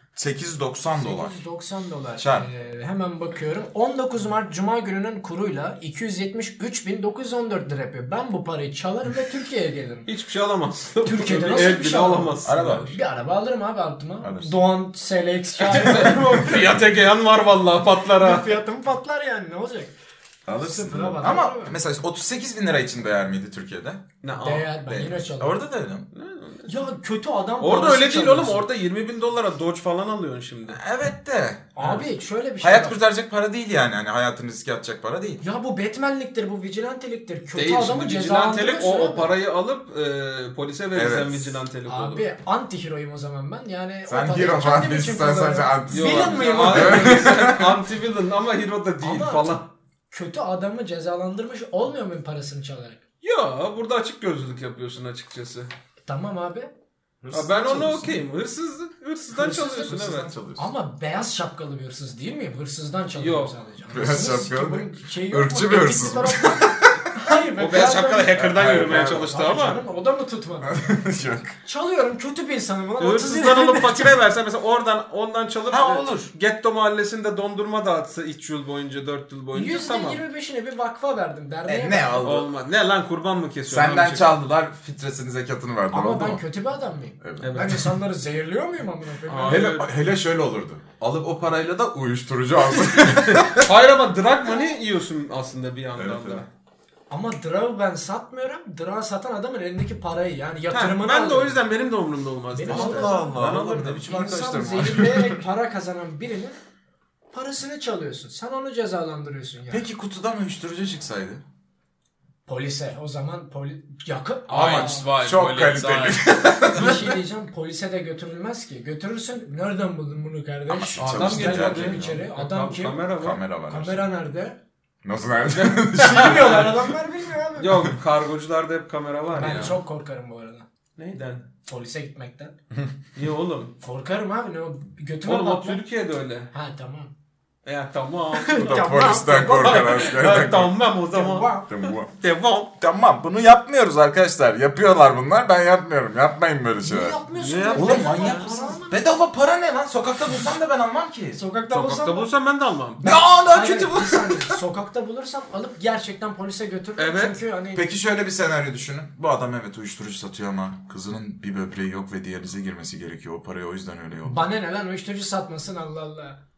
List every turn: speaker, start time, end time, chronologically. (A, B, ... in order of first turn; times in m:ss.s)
0:00.2-0:01.4 A
0:01.0-0:10.1 B
0:02.2-0:02.5 A
0:10.1-0:12.8 C
0:11.0-0:16.8 B
0:12.4-0:13.0 A
0:14.2-0:14.6 A
0:15.6-0:18.6 C
0:18.1-0:19.9 B
0:20.5-0:24.1 A
0:20.6-0:21.8 B
0:24.2-0:24.7 C
0:24.4-0:25.6 B
0:24.9-0:26.1 A
0:26.1-0:26.9 C
0:26.7-0:28.7 B
0:27.6-0:30.8 C
0:30.7-0:31.7 A
0:31.8-0:33.0 B
0:31.8-0:32.0 C
0:32.6-0:35.4 A
0:35.4-0:39.3 B
0:37.5-0:42.2 C
0:40.9-0:41.6 A
0:41.9-0:47.4 B
0:44.1-0:47.8 A
0:45.9-0:49.7 C
0:49.0-0:49.6 B
0:50.1-0:53.0 B
0:53.2-0:55.7 C
0:56.1-0:56.7 B
0:57.2-0:58.3 A
0:57.3-1:00.3 C
0:59.4-1:00.0 B
0:59.5-1:00.7 A
1:00.6-1:10.8 B
1:03.2-1:03.5 C
1:03.9-1:09.4 A
1:07.6-1:09.8 C
1:10.6-1:11.6 A
1:11.6-1:14.1 B
1:13.0-1:20.2 C
1:15.7-1:16.3 A
1:19.5-1:22.3 B
1:21.7-1:22.5 A
1:22.2-1:24.3 C
1:23.7-1:26.4 A
1:25.9-1:29.8 B
1:27.2-1:27.9 A
1:27.4-1:27.9 C
1:29.3-1:29.9 C
1:29.5-1:33.7 A
1:33.0-1:36.5 C
1:36.0-1:36.5 A
1:37.1-1:41.6 B
1:40.7-1:44.1 C
1:42.5-1:43.4 B
1:42.7-1:45.4 A
1:44.0-1:46.6 B
1:47.3-1:49.9 B
1:49.7-1:51.4 A
1:52.5-1:55.1 B
1:54.5-1:57.1 C
1:54.5-1:57.2 A
1:56.7-2:03.1 B
2:00.7-2:02.2 A
2:01.0-2:03.4 C
2:03.2-2:04.1 A
2:03.7-2:04.6 B
2:05.0-2:06.8 A
2:05.5-2:06.8 C
2:06.0-2:07.9 B
2:07.6-2:09.8 C
2:09.3-2:10.7 B
2:11.0-2:11.5 C
2:11.6-2:12.5 B
2:13.2-2:13.8 C
2:13.8-2:15.8 B
2:15.2-2:16.5 C
2:16.5-2:17.1 B
2:17.6-2:18.8 C
2:18.3-2:20.2 B
2:18.6-2:20.8 A
2:19.5-2:22.7 C
2:21.1-2:21.7 B
2:21.7-2:22.1 A
2:22.8-2:27.2 A
2:26.8-2:29.0 B
2:27.4-2:28.7 C
2:27.7-2:31.4 A
2:31.3-2:32.3 B
2:31.7-2:33.0 C
2:33.0-2:37.9 B
2:33.0-2:34.6 A
2:37.0-2:37.4 C
2:37.7-2:44.4 A
2:44.3-2:46.4 B